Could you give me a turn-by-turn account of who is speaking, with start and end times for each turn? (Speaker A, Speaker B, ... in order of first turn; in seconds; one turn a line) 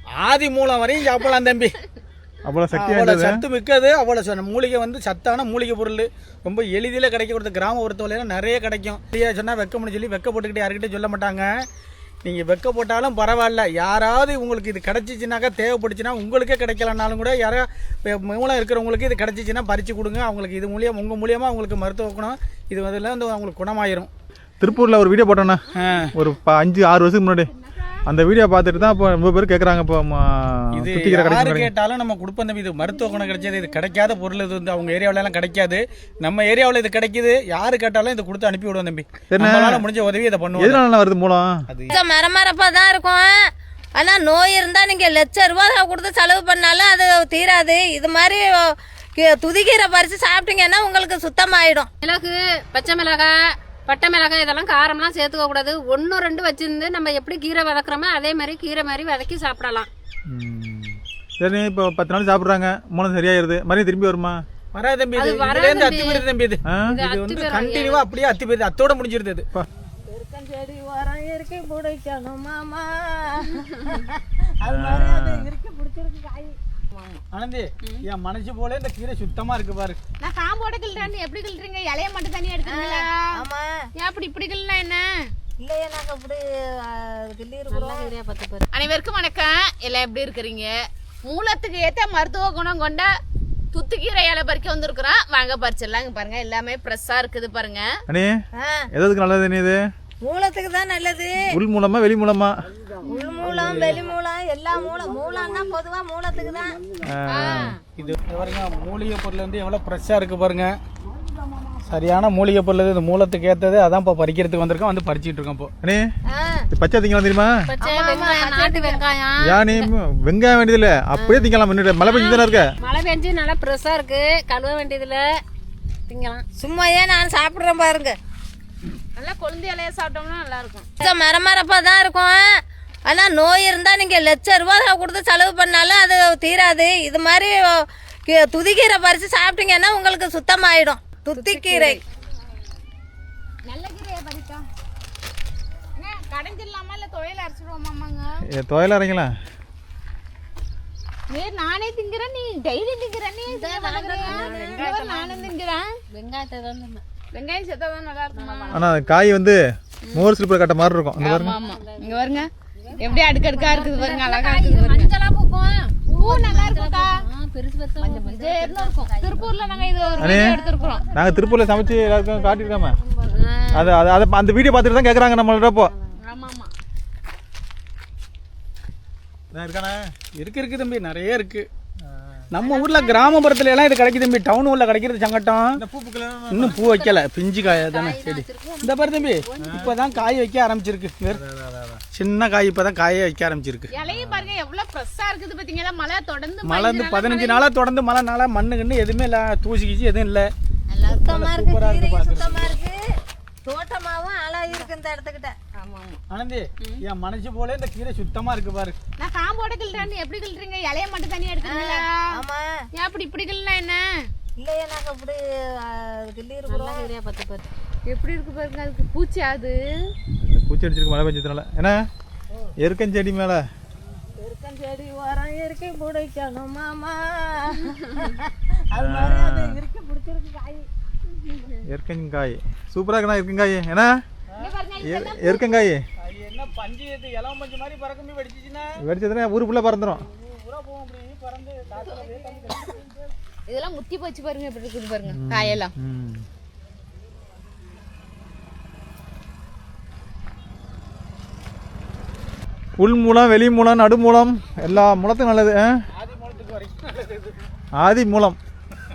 Speaker A: 0.2-1.7
Speaker B: 2.5-3.4
Speaker A: 2.7-11.5
Speaker A: 12.2-24.1
Speaker B: 24.6-25.6
Speaker A: 25.8-26.1
Speaker B: 26.1-27.5
Speaker B: 28.1-31.7
Speaker A: 30.8-40.8
Speaker B: 39.3-39.9
Speaker B: 40.5-41.6
Speaker A: 41.7-42.0
Speaker C: 41.9-43.4
Speaker C: 44.0-51.9
Speaker D: 52.0-53.3
Speaker D: 53.9-59.9
Speaker B: 60.3-64.4
Speaker A: 64.7-69.5
Speaker D: 65.2-66.3
Speaker B: 66.7-67.0
Speaker D: 66.9-68.1
Speaker C: 70.0-76.5
Speaker A: 74.6-75.3
Speaker B: 74.7-75.5
Speaker E: 76.9-77.2
Speaker A: 77.3-80.0
Speaker E: 80.2-83.2
Speaker C: 82.7-83.8
Speaker E: 84.0-85.1
Speaker C: 85.6-88.1
Speaker E: 87.7-88.0
Speaker D: 88.0-88.7
Speaker E: 88.7-90.7
Speaker E: 91.2-93.1
Speaker E: 93.7-97.9
Speaker C: 98.6-98.9
Speaker B: 98.9-99.8
Speaker C: 100.2-101.5
Speaker B: 101.5-102.5
Speaker C: 103.0-106.8
Speaker A: 103.5-104.0
Speaker B: 107.0-107.7
Speaker E: 107.3-107.8
Speaker A: 108.0-110.8
Speaker A: 111.9-115.7
Speaker C: 116.3-116.7
Speaker B: 116.7-117.6
Speaker D: 117.7-119.0
Speaker E: 117.8-119.8
Speaker C: 117.9-119.0
Speaker B: 119.4-122.7
Speaker D: 121.2-121.5
Speaker D: 122.1-125.2
Speaker D: 126.1-126.4
Speaker C: 126.6-128.2
Speaker E: 129.2-130.9
Speaker C: 131.0-132.5
Speaker C: 133.1-142.0
Speaker E: 141.4-142.0
Speaker E: 143.7-144.7
Speaker E: 146.0-148.4
Speaker B: 148.5-149.3
Speaker E: 151.3-155.9
Speaker C: 153.5-154.9
Speaker D: 154.2-155.5
Speaker D: 156.1-157.0
Speaker E: 157.3-158.9
Speaker D: 158.3-159.1
Speaker B: 158.7-159.6
Speaker B: 160.1-161.5
Speaker E: 161.2-165.1
Speaker D: 161.4-168.8
Speaker C: 163.1-163.4
Speaker E: 166.1-167.2
Speaker E: 168.0-171.1
Speaker C: 168.6-169.4
Speaker D: 169.4-170.3
Speaker C: 170.1-173.4
Speaker B: 170.2-170.6
Speaker B: 171.1-173.0
Speaker D: 173.4-173.9
Speaker B: 173.7-175.9
Speaker E: 176.2-176.7
Speaker B: 179.5-180.0
Speaker A: 180.4-181.7
Speaker B: 182.1-182.4
Speaker A: 182.5-185.8
Speaker D: 182.6-183.5
Speaker B: 185.8-186.8
Speaker A: 186.5-191.4
Speaker D: 186.6-189.9
Speaker B: 189.6-189.9
Speaker B: 191.3-192.0
Speaker A: 192.2-193.9
Speaker E: 193.9-197.6
Speaker B: 194.0-194.5
Speaker A: 196.7-200.5
Speaker C: 200.9-203.0
Speaker A: 201.1-202.7
Speaker C: 203.7-205.6
Speaker E: 205.8-206.2
Speaker A: 206.3-209.0
Speaker E: 209.2-212.2
Speaker C: 211.6-212.7
Speaker E: 212.9-214.0
Speaker C: 214.6-217.1
Speaker D: 216.7-217.7
Speaker E: 218.1-220.1
Speaker B: 220.4-222.0
Speaker B: 222.8-223.6
Speaker C: 224.4-230.9
Speaker B: 228.9-229.8
Speaker B: 231.9-234.1
Speaker E: 234.6-235.6
Speaker B: 235.0-236.0
Speaker A: 236.2-238.9
Speaker B: 239.0-240.2
Speaker A: 240.2-243.3
Speaker E: 243.7-245.9
Speaker B: 245.3-246.4
Speaker B: 253.0-255.9
Speaker A: 256.1-257.6
Speaker B: 258.0-258.6